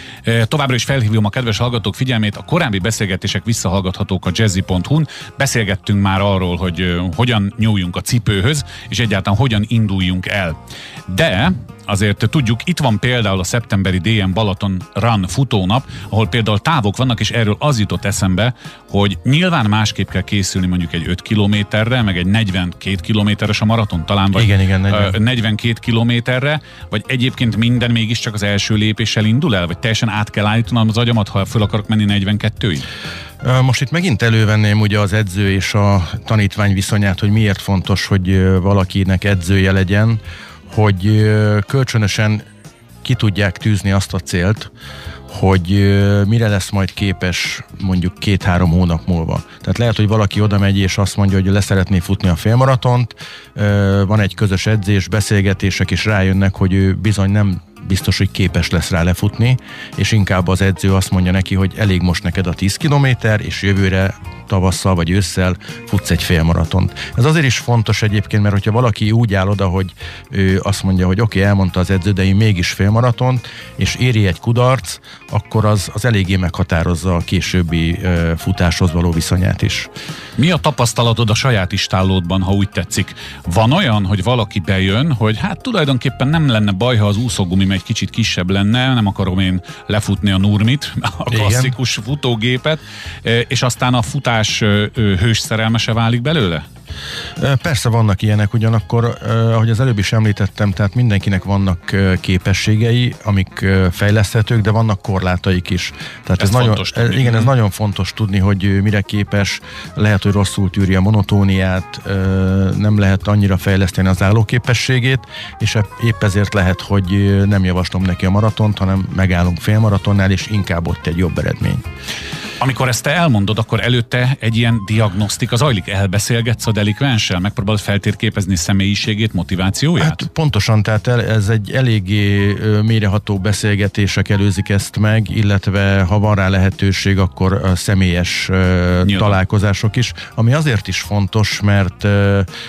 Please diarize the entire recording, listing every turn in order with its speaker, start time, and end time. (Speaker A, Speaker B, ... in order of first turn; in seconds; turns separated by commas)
Speaker A: 0.2-32.9, Speaker B: 24.3-25.1, Speaker B: 33.4-42.4, Speaker B: 43.0-44.7, Speaker B: 45.3-79.9, Speaker A: 80.4-96.6, Speaker B: 91.3-91.7, Speaker B: 97.4-121.8, Speaker A: 106.4-107.5, Speaker A: 122.6-130.2, Speaker B: 130.0-142.5, Speaker A: 139.0-139.4